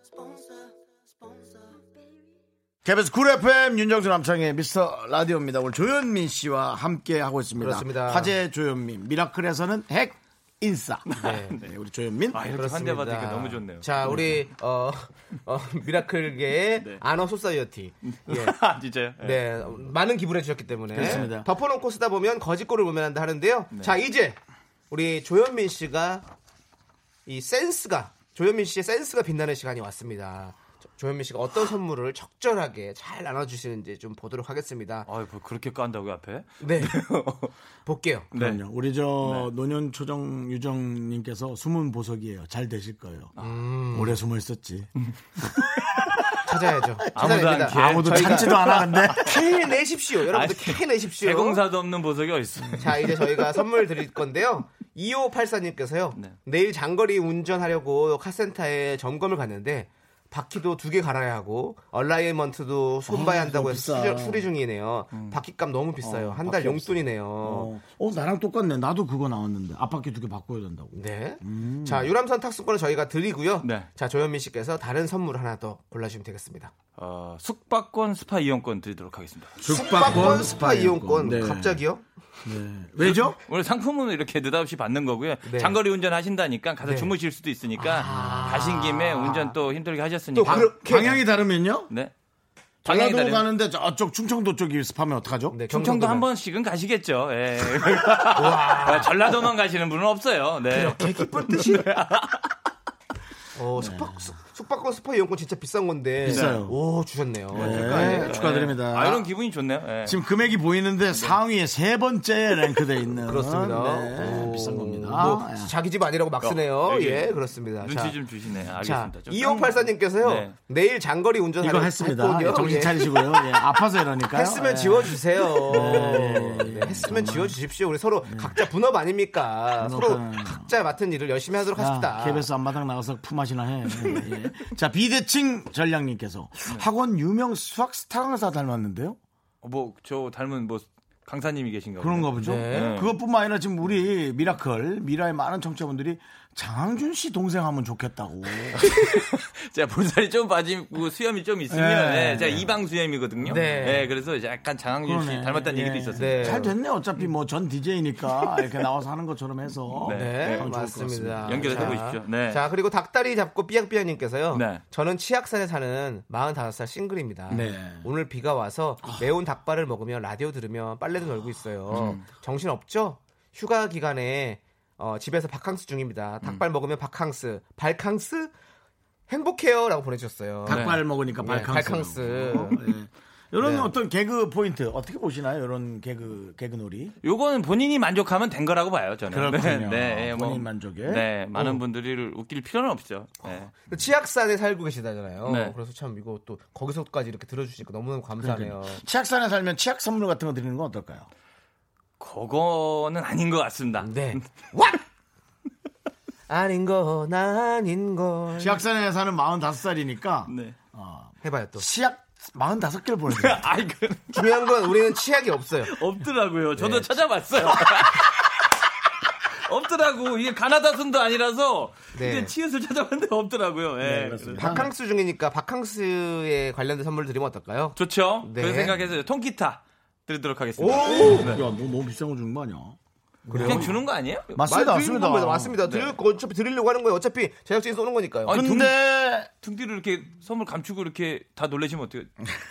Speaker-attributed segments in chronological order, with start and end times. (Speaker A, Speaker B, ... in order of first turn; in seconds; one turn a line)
Speaker A: 2.8-12.4
Speaker B: 7.5-8.3
Speaker C: 11.1-11.6
Speaker B: 11.1-11.6
Speaker C: 12.3-14.2
Speaker B: 12.5-18.6
Speaker C: 18.1-19.4
Speaker B: 19.2-24.4
Speaker A: 20.9-21.4
Speaker C: 21.0-21.3
Speaker B: 24.9-26.2
Speaker B: 27.2-35.1
Speaker C: 35.0-37.5
Speaker B: 36.6-37.0
Speaker B: 37.9-38.3
Speaker C: 38.3-38.6
Speaker A: 38.3-43.3
Speaker C: 39.2-39.5
Speaker B: 43.4-44.2
Speaker A: 43.9-46.4
Speaker B: 46.4-51.6
Speaker C: 47.1-49.4
Speaker A: 47.2-49.4
Speaker C: 50.2-53.3
Speaker B: 52.8-67.7
Speaker A: 63.1-64.5
Speaker C: 65.1-65.4
Speaker A: 66.0-72.1
Speaker B: 70.9-76.7
Speaker C: 73.6-73.9
Speaker C: 77.0-79.6
Speaker A: 79.6-81.8
Speaker B: 79.6-82.0
Speaker A: 82.4-83.4
Speaker C: 83.0-90.8
Speaker B: 85.4-85.8
Speaker B: 86.8-87.1
Speaker B: 87.8-89.5
Speaker B: 90.3-91.2
Speaker A: 90.5-91.9
Speaker C: 92.8-93.4
Speaker A: 92.8-95.6
Speaker B: 95.5-96.3
Speaker C: 95.7-102.5
Speaker B: 98.3-99.1
Speaker B: 100.7-101.9
Speaker B: 103.5-108.4
Speaker A: 103.8-104.1
Speaker A: 106.2-106.7
Speaker C: 106.3-106.7
Speaker C: 107.5-110.2
Speaker A: 107.5-109.2
Speaker A: 110.0-115.7
Speaker B: 113.2-118.2
Speaker C: 116.4-120.5
Speaker B: 118.8-123.5
Speaker A: 121.6-127.6
Speaker B: 124.3-132.4
Speaker C: 125.8-126.2
Speaker A: 128.3-128.5
Speaker A: 129.8-130.7
Speaker A: 131.8-139.2
Speaker C: 134.0-134.3
Speaker C: 139.6-143.1
Speaker A: 142.0-148.8
Speaker B: 142.4-143.0
Speaker C: 148.8-156.7
Speaker A: 151.7-152.7
Speaker A: 153.4-153.7
Speaker B: 153.5-154.1
Speaker A: 155.0-162.0
Speaker B: 156.1-156.7
Speaker C: 160.0-160.7
Speaker B: 160.1-178.5
Speaker C: 161.4-162.6
Speaker C: 164.5-164.8
Speaker A: 167.5-168.1
Speaker C: 171.9-172.2
Speaker B: 179.3-182.8
Speaker A: 180.7-187.2
Speaker C: 180.7-181.0
Speaker B: 183.6-183.9
Speaker C: 187.2-193.7
Speaker A: 189.3-191.8
Speaker B: 193.5-199.0
Speaker C: 195.4-195.7
Speaker A: 198.4-201.3
Speaker C: 202.2-204.4
Speaker B: 204.0-205.0
Speaker B: 206.5-208.8
Speaker A: 208.6-213.6
Speaker C: 210.5-210.8
Speaker B: 211.4-211.8
Speaker C: 213.3-214.6
Speaker B: 214.3-215.9
Speaker C: 215.8-218.5
Speaker B: 216.8-217.1
Speaker C: 219.7-224.9
Speaker B: 222.1-222.5
Speaker A: 224.0-224.9
Speaker B: 224.6-228.9
Speaker C: 227.9-231.6
Speaker A: 230.8-234.0
Speaker B: 231.0-231.5
Speaker B: 233.5-233.9
Speaker C: 233.5-234.5
Speaker A: 234.5-235.7
Speaker B: 234.6-238.6
Speaker C: 235.8-236.1
Speaker C: 238.4-238.9
Speaker A: 238.5-239.5
Speaker C: 239.6-242.3